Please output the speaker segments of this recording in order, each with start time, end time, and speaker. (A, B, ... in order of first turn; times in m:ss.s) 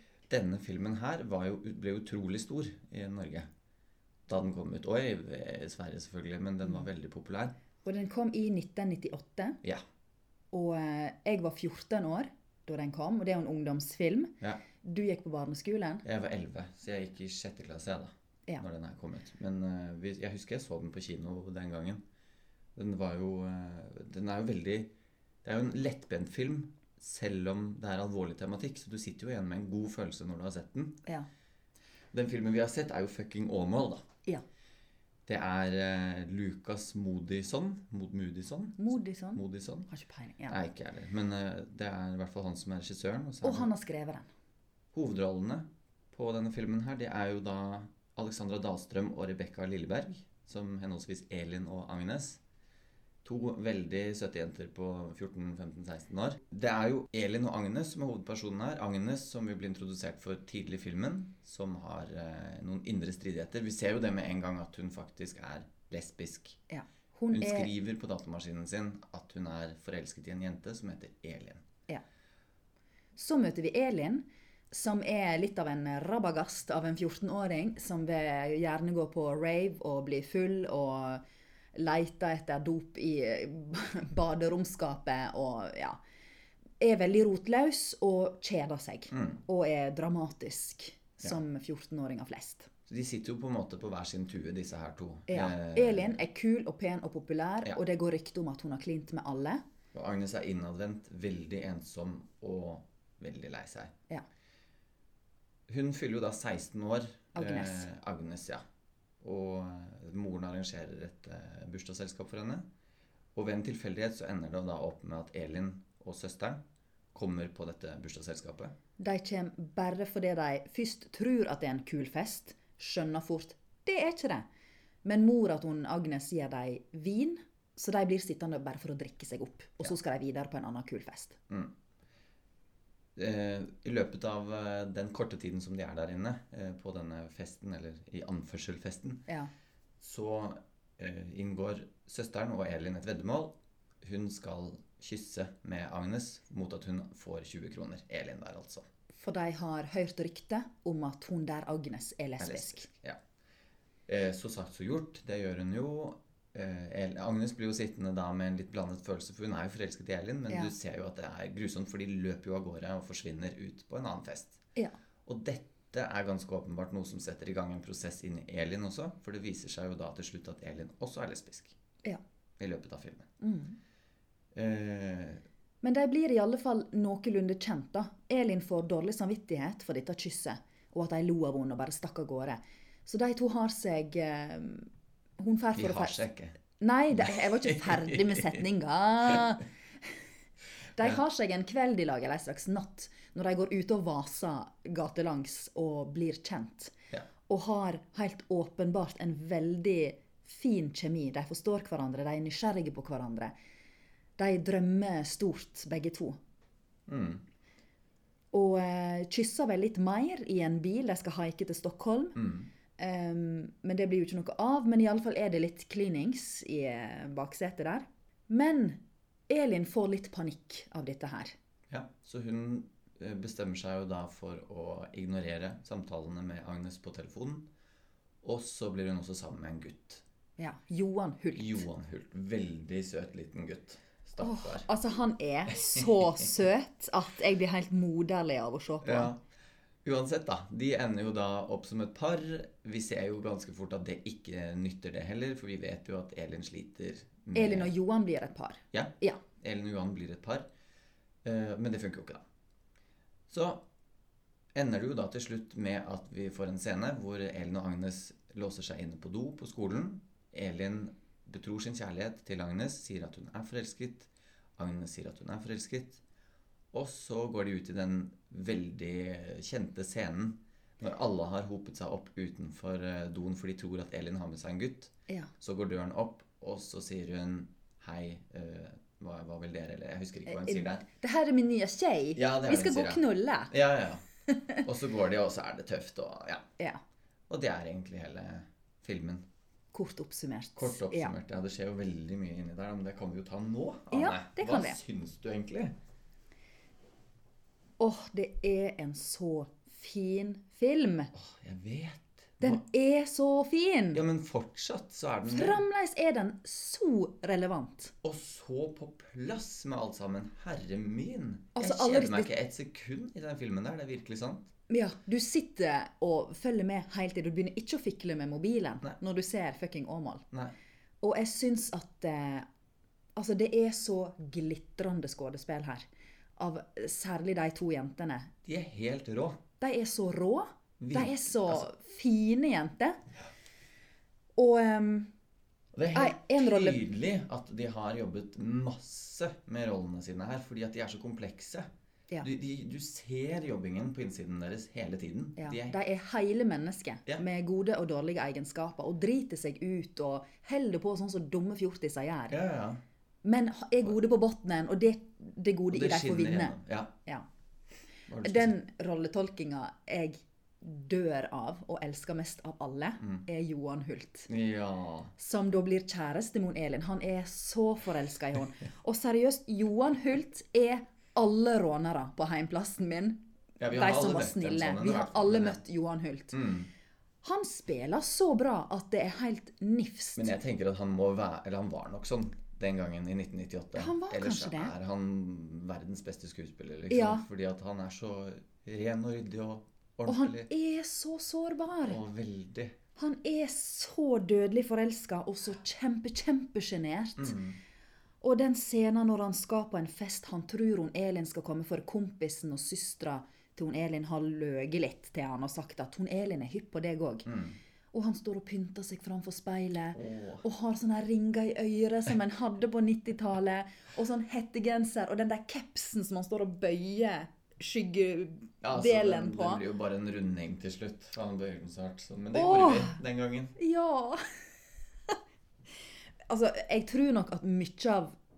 0:00.3-0:03.5 A
0:04.3-0:07.5 A
0:07.8-0:09.6 B
0:10.5-0:16.0 B
0:16.0-0:22.0 A
0:22.7-0:24.9 A
0:25.4-0:31.0 A
0:32.1-0:34.0 A
0:35.2-0:38.8 A
0:38.8-0:40.6 B
0:39.3-0:39.9 A
0:40.5-0:43.7 A
0:43.4-0:44.3 B
0:44.9-0:52.4 A
0:53.2-1:06.6 A
1:06.7-1:07.7 B
1:07.3-1:11.6 A
1:13.2-1:21.2 B
1:21.7-1:26.0 B
1:26.8-1:32.7 B
1:29.1-1:29.4 A
1:32.9-1:36.2 A
1:35.3-1:39.6 B
1:39.9-1:43.9 A
1:45.7-1:48.6 A
1:47.3-1:47.9 B
1:49.2-1:52.6 A
1:53.3-1:56.6 A
1:57.1-1:58.7 A
1:59.0-2:04.4 B
2:05.0-2:11.4 B
2:13.2-2:19.2 A
2:20.0-2:28.9 A
2:29.1-2:32.9 B
2:32.4-2:33.2 A
2:34.1-2:44.6 A
2:45.2-2:51.8 A
2:52.6-2:53.3 A
2:53.4-2:53.8 B
2:54.5-2:55.4 A
2:55.8-3:06.2 B
3:05.8-3:06.5 A
3:06.8-3:10.1 B
3:07.1-3:08.6 A
3:11.0-3:16.9 B
3:17.5-3:23.5 B
3:24.4-3:26.4 B
3:27.1-3:27.4 A
3:28.5-3:32.4 B
3:32.4-3:32.7 A
3:33.0-3:41.5 B
3:41.9-3:47.7 A
3:48.4-3:50.2 A
3:50.6-3:51.8 B
3:51.5-3:54.9 A
3:54.4-3:59.3 B
3:55.8-3:56.5 A
3:59.0-3:59.4 A
4:00.0-4:07.9 A
4:07.5-4:09.4 B
4:08.9-4:10.7 A
4:11.4-4:12.4 A
4:13.5-4:13.8 A
4:14.7-4:26.2 A
4:26.9-4:41.0 A
4:40.4-4:43.7 B
4:42.3-4:44.2 A
4:44.5-4:44.8 B
4:44.8-4:46.6 A
4:47.5-4:49.4 A
4:49.9-4:51.3 B
4:50.8-4:55.9 A
4:54.1-4:55.0 B
4:58.0-5:01.3 B
5:01.3-5:02.8 A
5:02.6-5:04.2 B
5:04.1-5:05.8 A
5:05.4-5:08.1 B
5:08.2-5:14.7 A
5:11.7-5:12.5 B
5:14.9-5:20.4 B
5:21.2-5:22.7 B
5:23.4-5:28.5 B
5:28.6-5:29.6 A
5:29.8-5:33.2 B
5:31.0-5:31.9 A
5:34.6-5:35.3 B
5:35.9-5:41.9 A
5:36.1-5:37.0 B
5:42.4-5:46.0 A
5:45.6-5:52.6 B
5:52.5-5:53.0 A
5:53.4-5:57.4 B
5:55.9-5:57.1 A
5:58.3-5:58.7 A
5:58.4-6:04.5 B
6:04.5-6:05.3 A
6:05.4-6:13.4 B
6:13.8-6:15.8 A
6:13.9-6:16.7 B
6:16.5-6:16.9 A
6:17.4-6:20.6 B
6:20.4-6:30.7 A
6:24.0-6:24.9 B
6:27.1-6:27.4 B
6:30.2-6:32.2 B
6:32.0-6:33.0 A
6:33.2-6:37.5 B
6:37.4-6:37.8 A
6:38.4-6:47.5 B
6:47.4-6:47.8 A
6:48.1-6:59.8 B
6:50.1-6:50.6 A
6:58.8-7:03.7 A
7:02.5-7:03.2 B
7:03.8-7:04.4 B
7:06.5-7:08.3 B